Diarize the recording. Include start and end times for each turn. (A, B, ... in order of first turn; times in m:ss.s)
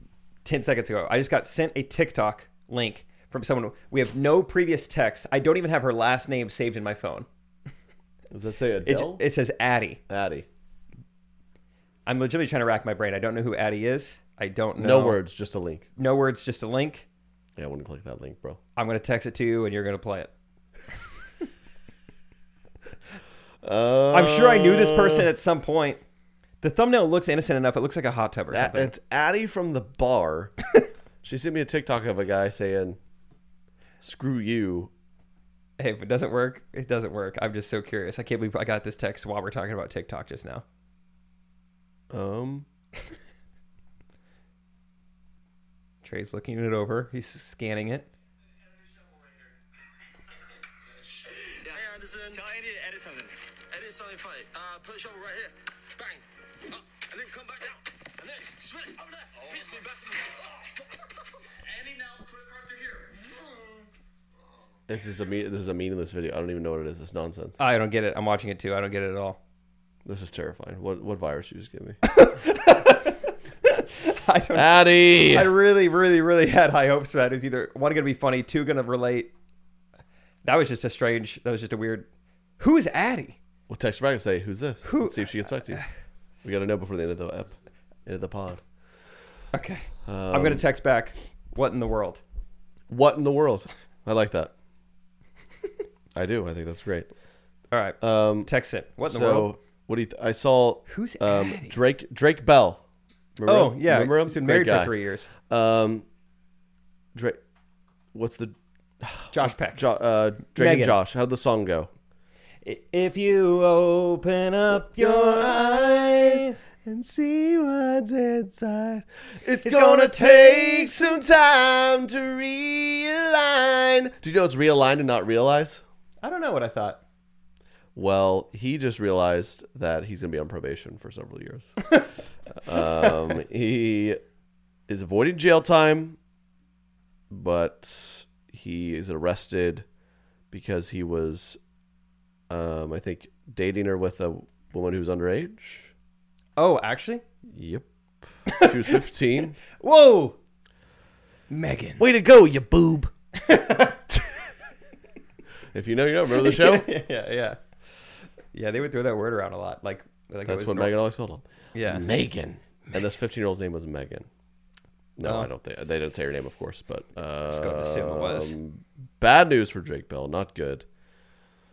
0:00.4-0:07.3 A
0:08.3-0:09.2 B
0:08.9-0:10.0 A
0:10.1-0:10.5 B
0:12.1-0:15.2 A
0:14.8-0:15.9 B
0:16.0-0:17.1 A
0:17.6-0:18.6 B
0:18.8-0:20.3 A
0:23.6-0:25.3 B
0:24.1-0:26.0 A
0:26.6-0:28.9 A
0:28.5-0:30.6 B
0:31.2-0:33.0 B
0:34.0-0:34.9 B
0:35.8-0:40.6 A
0:42.1-0:42.7 B
0:46.0-0:48.1 A
0:51.6-0:56.2 C
0:57.0-1:00.3 C
1:02.1-1:03.0 C
1:04.9-1:07.6 B
1:07.6-1:09.4 A
1:10.0-1:12.0 B
1:12.1-1:19.3 A
1:14.6-1:15.5 B
1:20.4-1:22.1 A
1:22.6-1:23.4 A
1:23.7-1:25.8 B
1:24.8-1:25.9 A
1:26.4-1:27.6 B
1:28.1-1:28.6 B
1:29.5-1:32.2 A
1:30.1-1:30.7 B
1:32.9-1:34.5 B
1:36.2-1:37.1 B
1:37.7-1:39.5 A
1:38.0-1:38.5 B
1:39.0-1:42.8 B
1:40.9-1:41.8 A
1:43.4-1:44.9 B
1:43.4-1:45.3 A
1:45.5-1:46.0 B
1:48.1-1:51.9 B
1:49.3-1:49.9 A
1:50.6-1:51.0 A
1:52.6-1:56.6 A
1:54.8-2:05.8 B
1:59.6-2:01.2 A
2:06.2-2:07.0 A
2:08.0-2:12.0 B
2:12.6-2:14.2 B
2:14.9-2:16.2 B
2:17.3-2:19.8 B
2:20.5-2:21.6 B
2:22.5-2:25.9 B
2:26.6-2:27.2 A
2:27.5-2:27.8 B
2:28.4-2:29.6 B
2:28.5-2:29.0 A
2:29.7-2:30.4 A
2:31.5-2:32.0 A
2:32.0-2:33.1 B
2:33.4-2:34.0 A
2:34.1-2:34.4 B
2:35.7-2:36.9 B
2:36.3-2:37.6 A
2:38.5-2:40.9 A
2:40.5-2:44.3 B
2:41.8-2:42.1 A
2:45.2-2:50.8 B
2:47.5-2:48.5 A